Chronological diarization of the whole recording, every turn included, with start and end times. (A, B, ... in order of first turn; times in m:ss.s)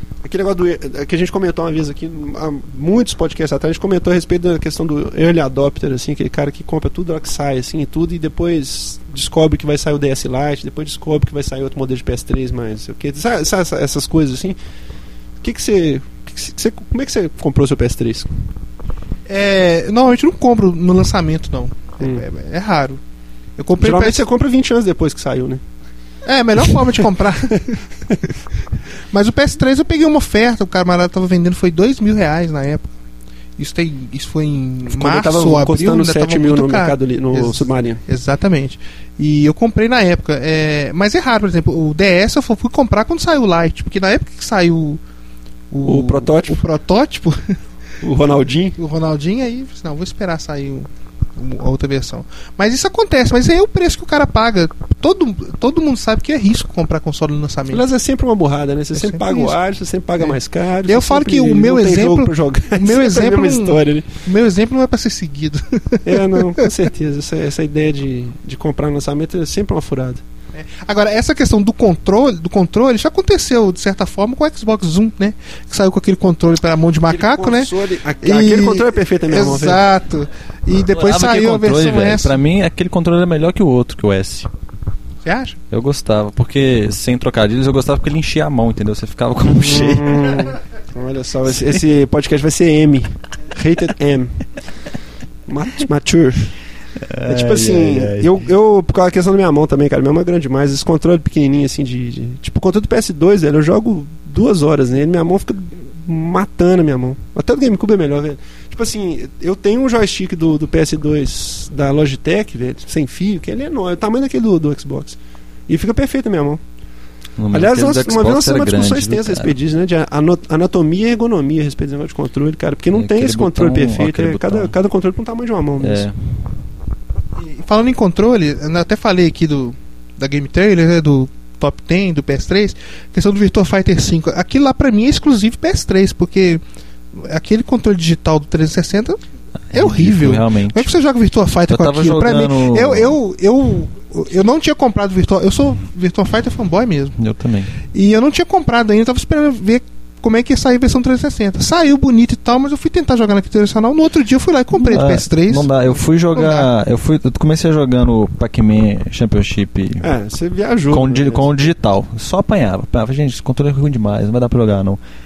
0:00.2-0:14.6 A
0:15.4-0:18.3 A
0:19.3-0:23.0 B
0:23.6-0:24.2 B
0:23.8-0:25.6 A
0:26.2-0:27.8 B
0:26.7-0:27.0 A
0:29.1-0:32.9 B
0:33.6-0:45.0 B
0:34.9-0:38.0 A
0:45.7-0:47.6 B
0:45.8-0:46.6 A
0:48.0-0:48.8 A
0:48.8-0:57.8 B
0:57.7-1:04.1 A
0:59.0-0:59.6 B
1:00.2-1:06.7 B
1:06.0-1:10.2 A
1:10.6-1:22.4 B
1:17.1-1:19.8 A
1:20.9-1:24.5 C
1:25.2-1:25.6 B
1:25.7-1:30.5 C
1:29.5-1:34.4 A
1:35.5-1:36.5 A
1:37.1-1:38.4 C
1:37.3-1:56.6 A
1:57.4-1:59.6 C
1:57.5-2:06.1 A
2:02.9-2:04.7 C
2:05.8-2:06.2 C
2:07.4-2:16.6 B
2:17.2-2:19.2 B
2:19.7-2:20.9 C
2:19.7-2:27.2 B
2:21.7-2:23.2 C
2:27.2-2:27.7 C
2:27.9-2:35.7 B
2:34.7-2:40.1 C
2:36.3-2:36.7 B
2:40.0-2:41.7 A
2:40.9-2:45.0 C